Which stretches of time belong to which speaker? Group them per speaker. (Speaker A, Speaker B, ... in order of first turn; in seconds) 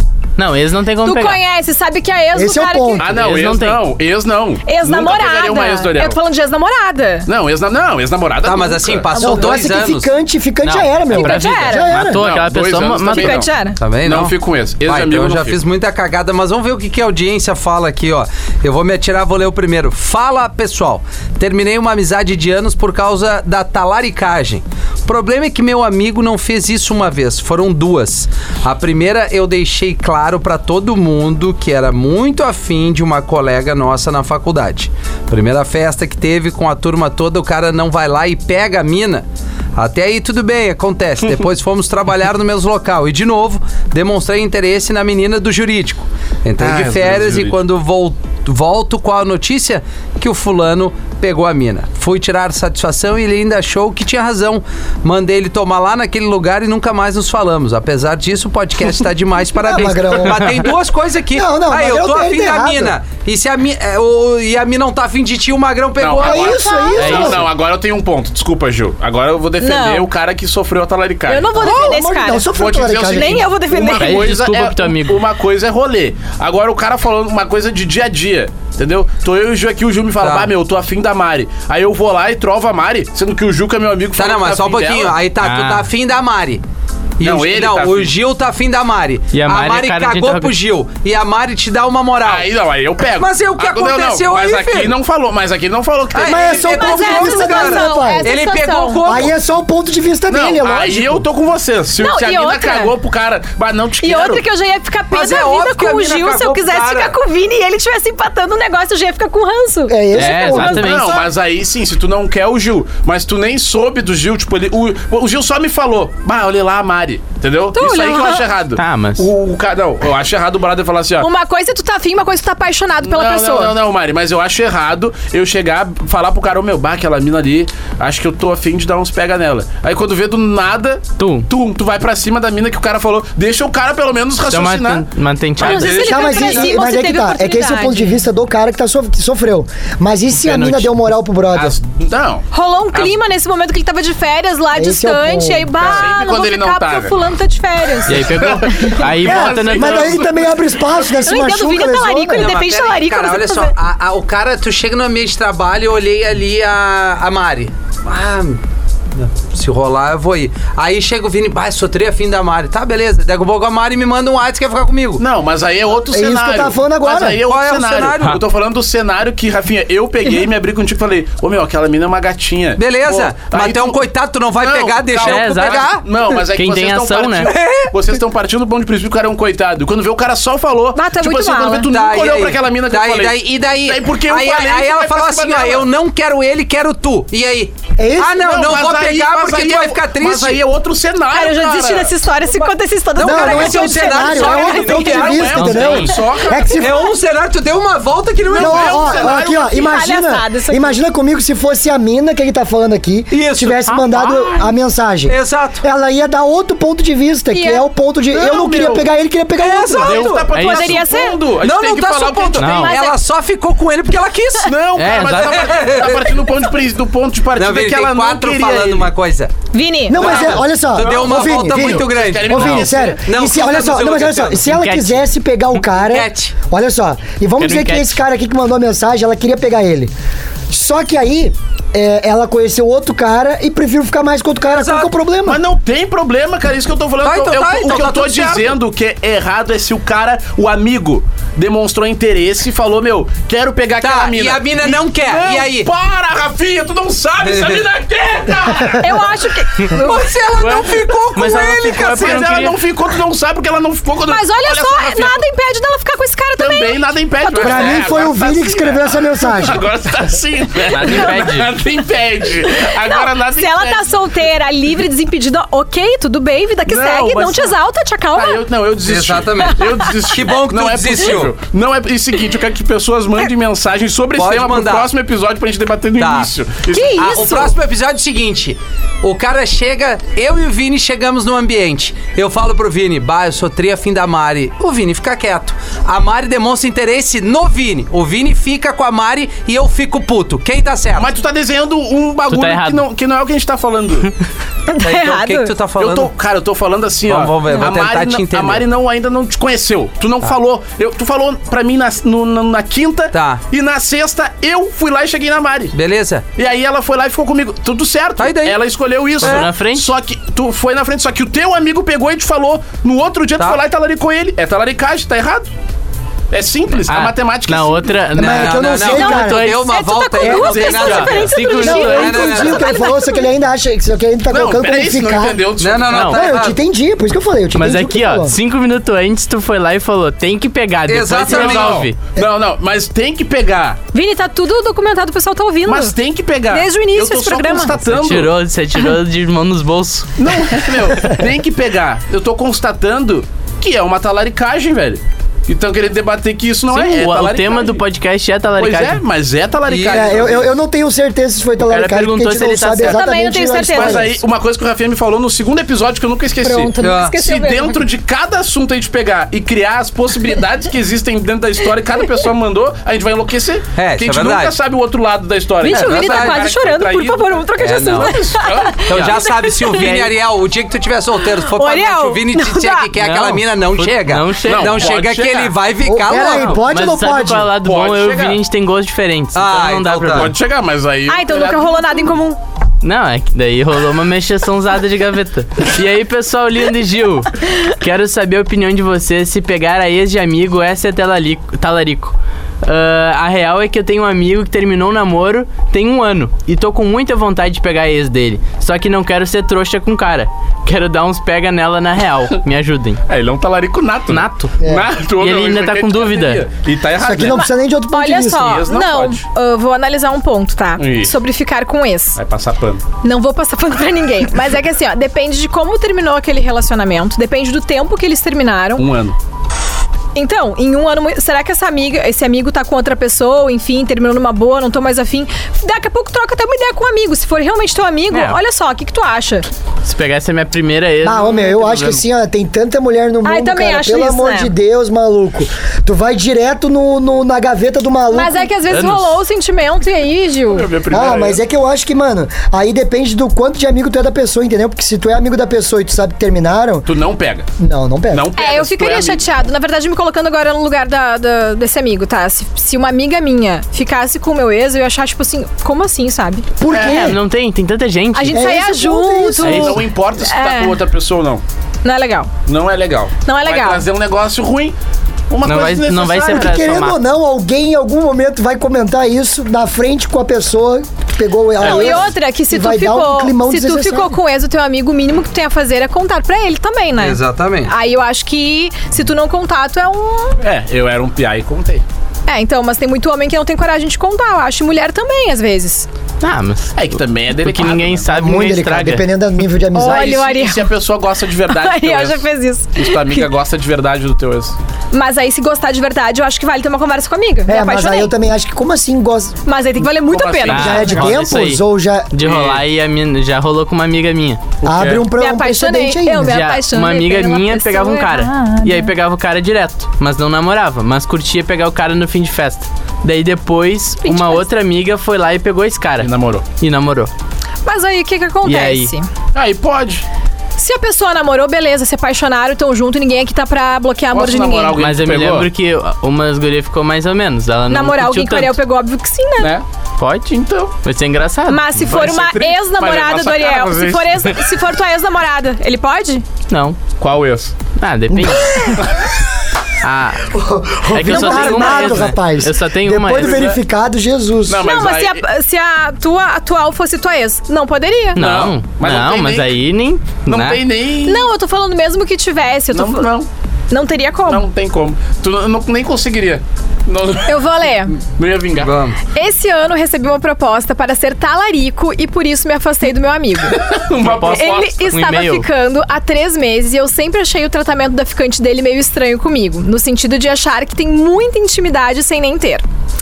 Speaker A: 0.4-1.4, 3.1-3.8, 10.6-13.4, 67.0-67.5, 74.0-75.2, 85.4-85.9, 89.3-90.5, 110.1-111.2, 118.8-119.3, 131.2-131.5, 134.5-136.1, 140.3-140.9, 148.1-150.2, 175.2-177.5, 195.5-196.1, 210.0-211.1, 212.6-213.0, 215.0-215.6, 222.6-222.9, 224.7-225.2, 227.6-228.2, 251.3-252.8, 260.9-261.7, 292.5-293.0, 309.4-310.1, 317.1-319.8, 320.8-322.5, 326.1-326.4, 327.8-332.2, 338.1-340.4, 346.9-349.2, 351.9-353.2, 370.0-370.3, 373.2-375.1, 376.3-380.6, 383.0-403.2, 404.3-404.8, 405.4-406.6, 428.3-428.6, 430.0-432.2, 456.9-458.7, 459.6-460.0, 465.6-467.2, 486.4-489.2, 500.7-504.6, 506.4-517.3, 518.6-519.1, 525.0-528.8, 530.2-532.0, 536.7-537.0, 538.0-538.9, 540.0-543.7, 548.4-550.8, 564.2-565.7
Speaker B: 1.0-3.1, 4.7-7.3, 9.1-9.6, 11.1-12.0, 13.1-13.8, 66.4-67.2, 69.6-70.1, 71.3-72.5, 73.0-74.3, 96.6-99.2, 102.0-102.9, 104.0-111.2, 117.7-118.5, 121.2-123.8, 135.6-138.2, 142.5-149.0, 151.2-153.8, 180.9-181.9, 191.3-195.0, 196.5-197.0, 199.4-201.0, 207.5-207.9, 210.6-211.4, 212.7-213.2, 219.7-220.4, 249.0-250.3, 254.3-257.9, 262.7-268.6, 269.6-270.1, 276.9-277.8, 294.9-295.7, 319.1-323.5, 334.1-336.1, 336.7-338.0, 353.0-354.3, 356.6-358.0, 365.8-370.3, 371.5-373.1, 381.3-382.6, 407.4-412.4, 413.2-419.1, 420.4-429.7, 433.4-434.7, 438.3-440.9, 448.6-456.7, 458.3-461.0, 462.0-462.5, 463.4-464.1, 471.8-480.6, 482.5-486.1, 489.9-490.9, 491.7-493.5, 495.1-498.3, 499.7-501.1, 505.4-509.1, 514.2-514.6, 517.9-519.3, 520.8-525.0, 527.9-529.7, 531.7-536.5, 541.3-542.1, 544.8-548.4, 551.2-553.3, 553.9-554.6, 557.5-558.2, 559.3-563.8, 564.5-572.8
Speaker C: 2.3-3.1, 9.2-12.2, 59.5-60.7, 61.3-63.0, 66.2-67.5, 71.6-73.5, 96.2-98.3, 99.0-101.2, 109.9-110.8, 135.8-141.8, 144.7-145.7, 149.2-152.6, 166.1-167.4, 188.0-188.5, 193.2-197.1, 198.5-210.3, 220.1-230.1, 230.7-235.6, 257.6-259.8, 318.4-319.7, 320.4-320.8, 321.8-325.6, 326.3-328.6, 350.1-354.4, 376.1-377.7, 404.8-405.1, 407.2-408.8, 431.2-438.7, 441.1-447.1, 447.8-448.5, 456.8-457.4, 458.5-459.9, 466.4-474.4, 488.3-490.4, 497.7-499.6, 500.7-502.3, 504.8-506.6, 538.3-539.0, 540.5-544.9
Speaker D: 3.0-6.2, 7.3-9.1, 12.1-15.6, 46.6-47.6, 66.0-71.9, 72.5-85.2, 87.2-88.1, 92.2-96.7, 100.3-104.4, 110.6-121.3, 123.0-135.1, 135.6-136.6, 141.5-143.2, 145.8-147.2, 148.1-150.7, 165.2-174.0, 174.6-185.9, 188.3-192.2, 194.3-196.7, 198.5-200.0, 208.3-209.1, 209.9-212.8, 214.7-219.1, 220.2-223.2, 235.4-249.2, 250.6-255.4, 256.6-264.1, 266.9-267.8, 268.3-277.7, 291.2-294.3, 296.0-305.9, 306.6-315.7, 316.5-318.2, 320.8-321.3, 324.5-326.6, 331.4-334.0, 335.9-338.5, 340.4-348.0, 348.8-350.7, 353.9-369.4, 374.6-375.8, 377.8-378.6, 380.3-382.3, 403.3-407.6, 408.6-409.4, 411.0-411.4, 412.4-413.0, 419.0-419.4, 440.7-441.6, 447.1-447.7, 448.3-449.4, 456.9-457.2, 459.6-461.6, 462.7-464.9, 465.5-466.7, 471.8-472.2, 480.6-482.0, 487.0-488.3, 490.0-494.8, 500.2-501.4, 502.4-502.8, 504.9-505.2, 516.2-516.6, 519.5-520.2, 524.3-525.7, 529.6-529.9, 530.5-530.9, 532.0-534.6, 537.2-537.8, 543.4-543.8, 544.7-545.4, 548.4-549.7, 550.5-551.5, 552.9-553.5, 554.5-557.6, 558.2-559.0, 563.7-565.1
Speaker E: 8.4-10.1, 13.8-66.6, 80.2-80.5, 84.2-86.6, 87.2-92.5, 93.1-95.0, 96.1-99.3, 105.1-107.2, 152.3-158.6, 159.1-165.2, 167.4-168.4, 172.8-176.1, 177.4-177.9, 181.9-190.6, 193.2-196.0, 196.8-199.3, 203.3-204.7, 205.3-205.8, 209.6-210.6, 211.6-216.4, 217.6-219.5, 220.1-224.7, 225.9-226.6, 234.7-235.1, 237.2-238.8, 244.0-245.9, 247.4-247.9, 249.9-252.6, 269.0-271.6, 274.4-275.1, 276.2-276.5, 277.2-291.3, 295.0-296.3, 297.3-298.9, 303.3-303.6, 305.9-306.5, 308.4-308.8, 318.4-323.0, 325.8-326.8, 331.1-332.1, 349.9-350.6, 357.0-357.4, 364.0-364.8, 365.8-366.7, 367.8-368.4, 369.1-376.8, 379.5-380.6, 477.2-477.9, 558.8-559.2